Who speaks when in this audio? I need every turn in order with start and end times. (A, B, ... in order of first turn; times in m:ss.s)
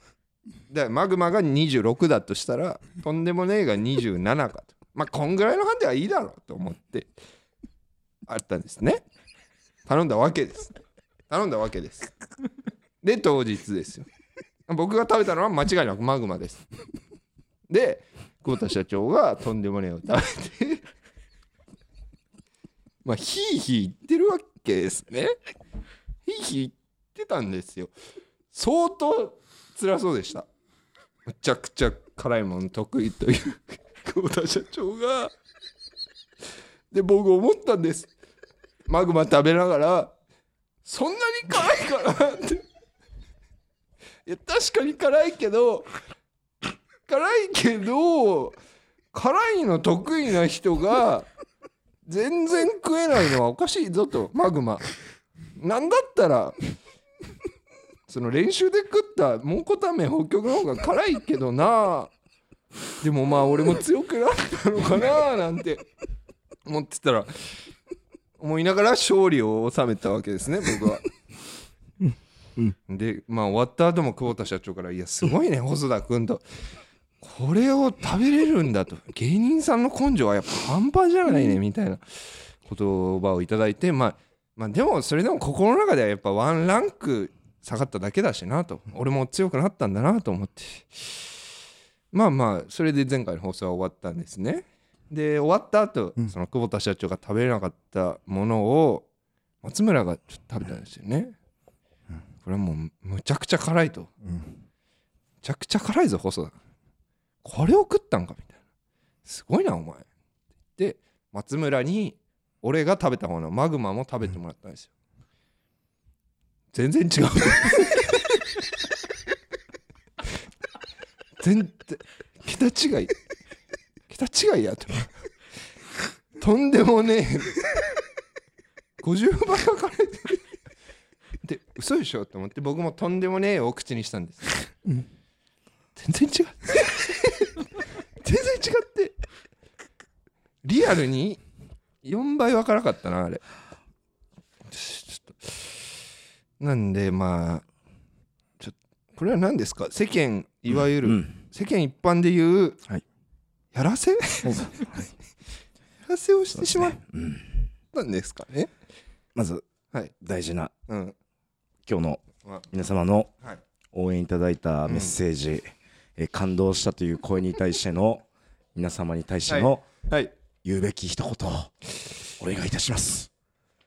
0:00.7-0:07.1 A
0:08.2-0:09.0 A
0:09.8-0:10.7 A
0:11.3-0:12.1 A
0:13.0-0:14.0 A
0:14.7-0:16.6 A
0:17.7-0:20.8 A
0:23.0-0:25.3 A
0:26.2-0:27.9 A
0:28.5-0:30.4 A
0:31.2-0:35.3 A
0:36.9-0:38.1 A
0:38.8-0:40.1 A
0:40.8-0:42.6 A
0:44.2-0:45.9 A
0:47.1-0:48.6 A
0:49.1-0:51.3 A
0:52.0-0:54.9 A
0:55.6-0:56.5 A
0:58.1-1:02.1 A
1:03.0-1:05.9 A
1:06.6-1:07.5 A
1:08.4-1:11.0 A
1:12.9-1:16.4 A
1:17.2-1:31.2 A
1:32.1-1:39.0 A
1:39.6-1:41.3 A
1:42.4-1:44.1 A
1:45.4-1:46.6 A
1:47.4-1:48.6 A
1:49.2-1:50.0 A
1:50.8-1:54.9 A
1:56.7-1:58.4 A
2:01.4-2:03.1 A
2:04.1-2:05.1 A
2:06.4-2:07.6 A
2:09.0-2:10.4 A
2:11.4-2:14.6 A
2:16.0-2:17.6 A
2:18.2-2:19.1 A
2:20.6-2:21.4 A
2:22.0-2:23.4 A
2:24.7-2:25.7 A
2:26.6-2:27.6 A
2:28.6-2:32.8 A
2:30.7-2:31.3 B
2:33.7-2:35.0 A
2:34.4-2:35.1 B
2:36.0-2:37.0 A
2:36.6-2:37.5 B
2:37.9-2:38.7 A
2:39.3-2:39.6 B
2:40.2-2:40.7 B
2:40.9-2:41.1 A
2:41.8-2:43.3 B
2:43.9-2:49.9 B
2:44.9-2:45.1 A
2:49.5-2:50.3 A
2:50.6-2:51.7 B
2:52.4-2:53.3 B